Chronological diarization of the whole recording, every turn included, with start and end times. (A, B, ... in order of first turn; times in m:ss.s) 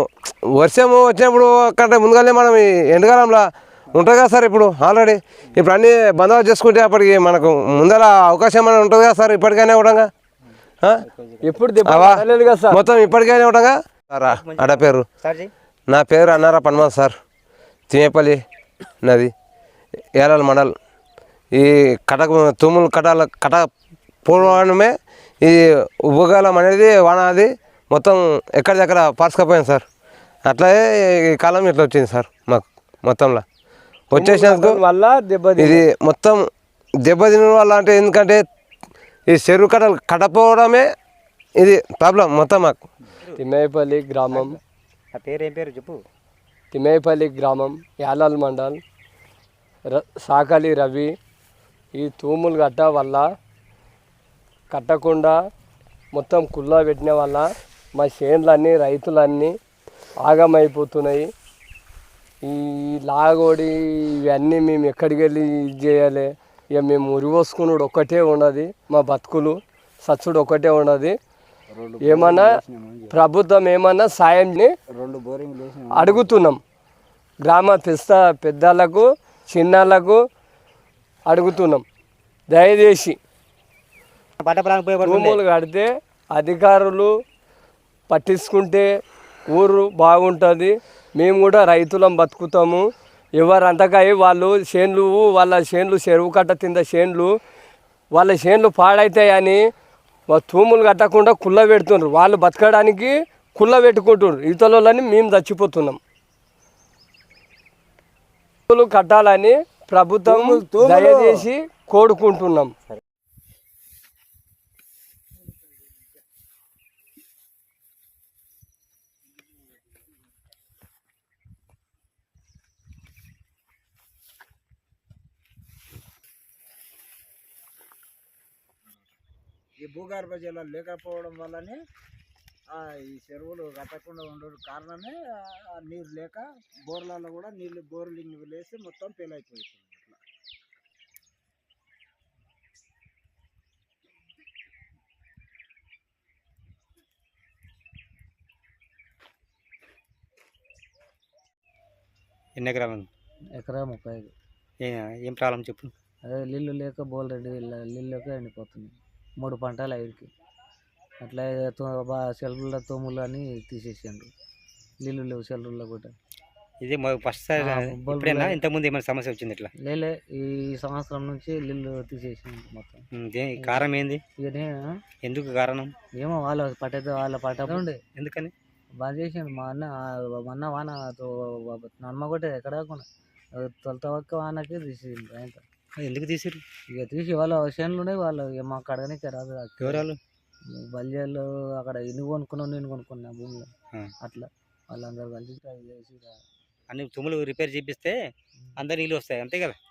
0:00.6-0:10.1 A
0:11.0-0:12.6 B
0:11.4-0:12.8 C
0:11.8-0:12.2 A
0:12.7-0:15.0 A
0:14.2-0:15.5 B
0:15.9-0:17.1 A
0:17.9-0:18.4 A
0:19.0-0:19.3 A
0:20.2-0:20.7 A
0:21.6-0:23.7 A
0:24.2-0:29.8 A
0:24.3-0:24.6 B
0:30.5-0:33.4 A
0:34.1-0:34.8 A
0:34.1-0:35.8 C
0:35.6-0:36.4 A
0:37.0-0:38.4 A
0:39.3-0:40.8 A
0:41.6-0:42.8 A
0:43.4-0:44.6 C
0:44.3-0:44.6 B
0:45.1-0:46.0 B
0:46.7-0:48.8 C
0:49.9-0:51.1 C
0:52.0-0:53.2 C
0:54.7-0:55.3 C
0:56.1-0:59.5 C
1:00.2-1:01.3 C
1:02.4-1:11.2 C
1:11.7-1:13.1 D
1:12.0-1:12.6 C
1:13.1-1:14.7 C
1:15.0-1:16.3 D
1:15.9-1:16.6 C
1:17.4-1:20.2 C
1:21.3-1:21.8 C
1:22.5-1:23.2 C
1:24.4-1:25.4 B
1:25.0-1:27.1 C
1:28.1-1:28.9 C
1:29.5-1:32.8 C
1:33.4-1:37.3 C
1:38.1-1:39.6 C
1:40.3-1:46.0 C
1:48.7-1:52.7 C
1:50.2-1:51.4 D
2:09.8-2:11.8 D
2:12.7-2:20.2 D
2:32.6-2:33.1 B
2:33.6-2:34.3 E
2:34.8-2:35.9 B
2:36.2-2:40.3 E
2:41.2-2:44.3 E
2:45.0-2:46.1 E
2:46.8-2:49.7 B
2:47.6-2:48.6 E
2:49.8-2:53.0 E
2:53.2-2:54.2 B
2:53.6-2:53.9 E
2:54.4-2:54.7 E
2:55.2-2:55.9 B
2:56.2-2:58.0 E
2:57.6-2:58.5 B
2:59.0-3:05.6 E
3:06.0-3:06.6 B
3:06.9-3:10.1 E
3:09.8-3:10.2 B
3:10.7-3:16.4 E
3:16.9-3:18.2 B
3:18.8-3:19.8 B